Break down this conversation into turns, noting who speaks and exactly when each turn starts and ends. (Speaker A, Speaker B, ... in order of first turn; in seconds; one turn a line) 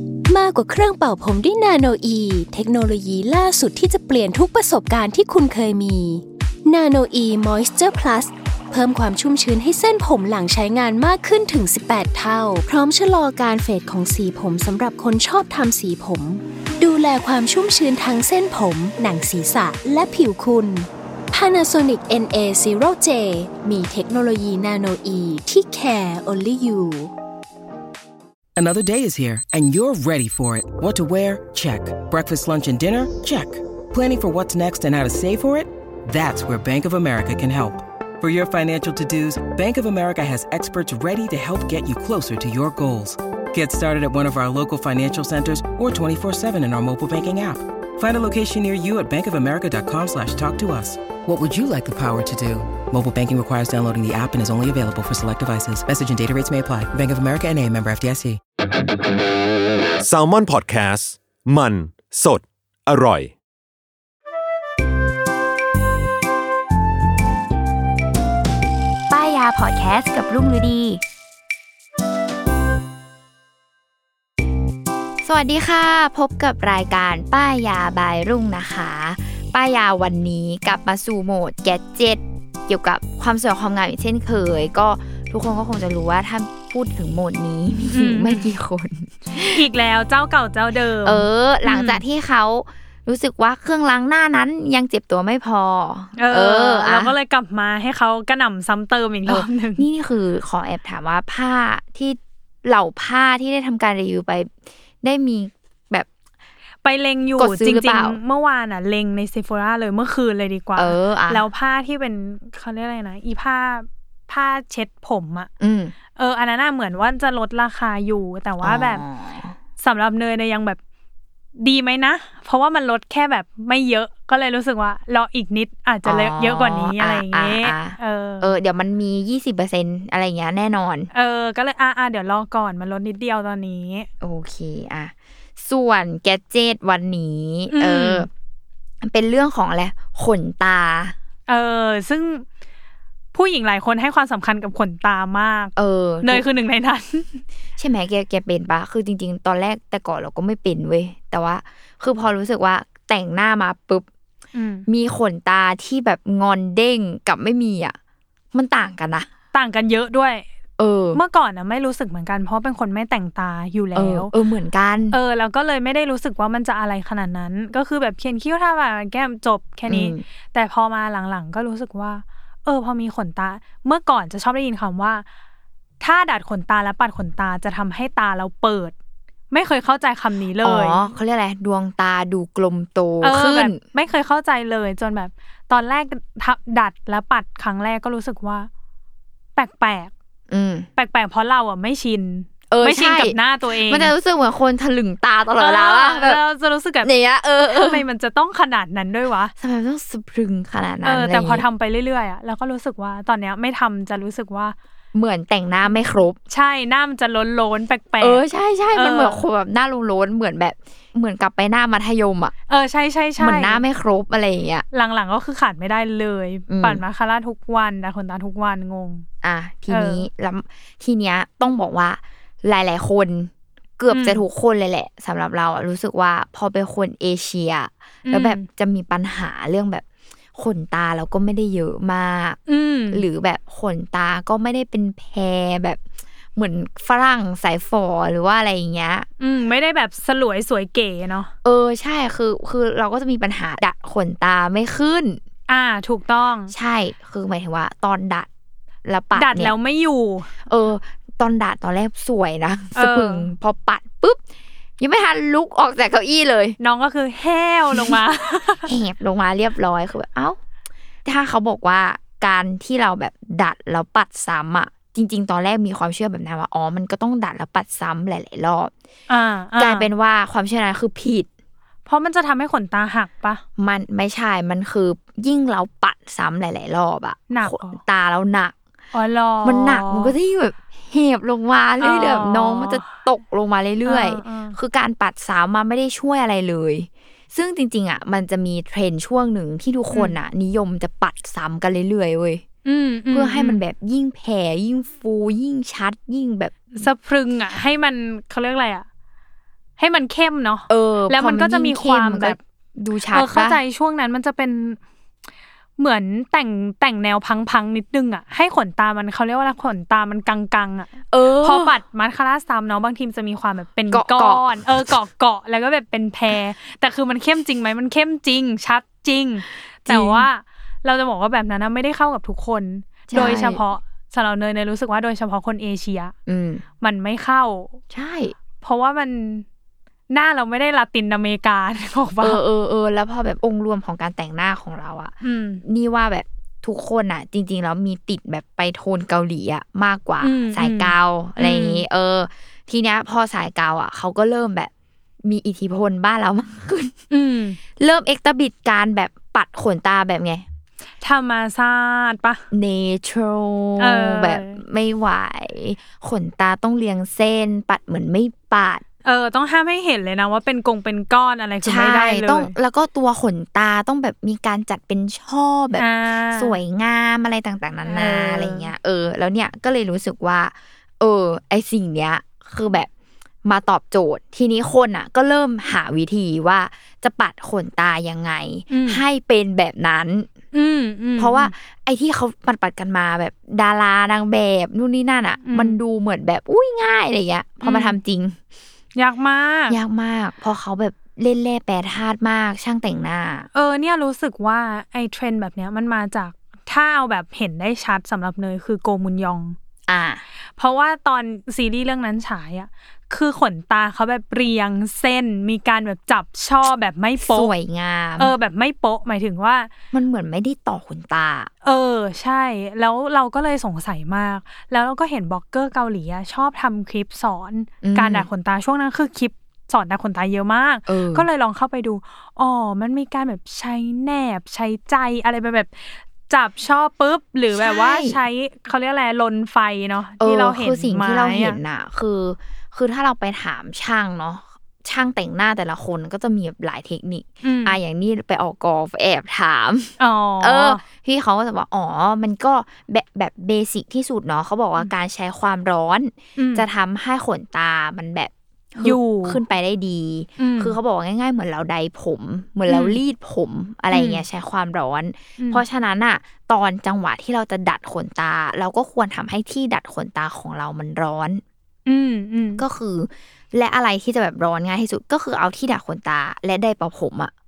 Speaker A: 0.3-27.1
Speaker B: 28.6-58.4
Speaker C: 60.0-63.4
Speaker D: 69.1-71.0
Speaker D: 75.2-89.6
Speaker E: 87.9-88.5
Speaker E: 89.4-92.0
Speaker D: 91.0-97.1
Speaker E: 96.2-99.8
Speaker D: 99.2-106.1
Speaker E: 106.8-115.5
Speaker D: 107.4-108.2
Speaker D: 110.8-111.5
Speaker D: 115.6-115.9
Speaker E: 116.2-119.0
Speaker D: 118.6-119.5
Speaker E: 119.8-120.8
Speaker E: 121.6-128.5
Speaker D: 126.0-131.1
Speaker E: 131.1-134.1
Speaker D: 134.2-138.3
Speaker E: 137.7-138.3
Speaker D: 139.0-141.1
Speaker E: 141.5-142.4
Speaker E: 143.3-147.4
Speaker D: 145.8-146.4
Speaker D: 147.8-154.1
Speaker E: 154.5-154.8
Speaker D: 154.9-157.9
Speaker D: 158.5-159.3
Speaker E: 159.5-160.4
Speaker D: 160.8-161.2
Speaker E: 161.1-164.3
Speaker D: 163.9-165.2
Speaker E: 165.1-175.2
Speaker D: 169.9-170.2
Speaker E: 176.0-178.9
Speaker E: 179.5-181.0
Speaker D: 180.6-183.8
Speaker E: 183.2-188.7
Speaker E: 189.6-190.1
Speaker D: 190.5-190.9
Speaker E: 190.9-194.1
Speaker D: 192.7-196.4
Speaker E: 195.6-197.1
Speaker D: 197.0-198.0
Speaker E: 197.7-199.5
Speaker D: 199.6-201.7
Speaker E: 201.0-204.8
Speaker D: 205.1-206.4
Speaker E: 206.5-208.4
Speaker D: 208.2-212.5
Speaker E: 208.9-209.4
Speaker E: 212.7-213.8
Speaker D: 213.4-214.8
Speaker E: 214.9-219.2
Speaker D: 216.7-217.0
Speaker D: 219.4-232.6
Speaker E: 219.9-220.2
Speaker E: 224.1-224.4
Speaker E: 228.2-228.7
Speaker E: 232.7-233.2
Speaker D: 233.1-236.0
Speaker D: 236.5-239.3
Speaker E: 239.4-241.5
Speaker D: 241.6-245.4
Speaker E: 245.7-246.7
Speaker D: 246.7-248.5
Speaker D: 249.0-249.7
Speaker E: 249.3-250.5
Speaker D: 250.6-254.4
Speaker E: 252.9-253.5
Speaker D: 255.0-256.8
Speaker E: 256.8-258.9
Speaker D: 258.8-260.6
Speaker D: 261.2-268.9
Speaker E: 269.3-270.1
Speaker D: 269.8-271.5
Speaker E: 272.1-273.6
Speaker D: 273.8-278.7
Speaker E: 277.5-278.0
Speaker E: 279.1-280.3
Speaker D: 279.6-292.6
Speaker E: 282.0-283.1
Speaker E: 284.1-284.8
Speaker E: 292.8-293.8
Speaker D: 293.3-297.0
Speaker E: 297.0-299.1
Speaker E: 300.0-302.6
Speaker D: 300.9-303.8
Speaker E: 303.3-305.0
Speaker E: 306.0-326.3
Speaker D: 311.3-311.9
Speaker D: 314.1-315.1
Speaker D: 320.1-320.5
Speaker D: 323.3-323.8
Speaker D: 326.4-326.8
Speaker E: 327.0-328.0
Speaker D: 328.1-328.5
Speaker E: 328.8-329.6
Speaker E: 330.3-332.6
Speaker D: 332.4-344.9
Speaker E: 335.4-335.8
Speaker E: 340.4-342.0
Speaker D: 345.4-347.2
Speaker E: 347.3-347.8
Speaker D: 348.0-350.6
Speaker E: 351.2-352.6
Speaker D: 352.7-359.0
Speaker E: 354.0-354.8
Speaker E: 359.2-362.7
Speaker D: 361.8-373.1
Speaker E: 366.0-366.8
Speaker E: 368.1-368.9
Speaker D: 373.6-380.5
Speaker E: 378.9-379.2
Speaker E: 380.7-381.7
Speaker D: 381.4-388.6
Speaker E: 385.6-386.0
Speaker E: 387.8-388.2
Speaker E: 389.1-390.0
Speaker D: 389.9-393.7
Speaker E: 393.7-399.8
Speaker D: 400.1-400.4
Speaker E: 400.8-407.7
Speaker D: 407.4-408.5
Speaker E: 408.4-409.9
Speaker D: 410.1-411.7
Speaker E: 411.8-431.8
Speaker D: 418.0-418.5
Speaker D: 421.1-421.5
Speaker D: 427.7-428.4
Speaker D: 430.4-461.6
Speaker E: 437.6-438.0
Speaker E: 440.2-441.0
Speaker E: 446.6-446.8
Speaker E: 449.0-449.6
Speaker E: 450.6-451.0
Speaker E: 452.9-453.2
Speaker E: 454.1-454.4
Speaker E: 462.1-462.8
Speaker D: 462.8-467.5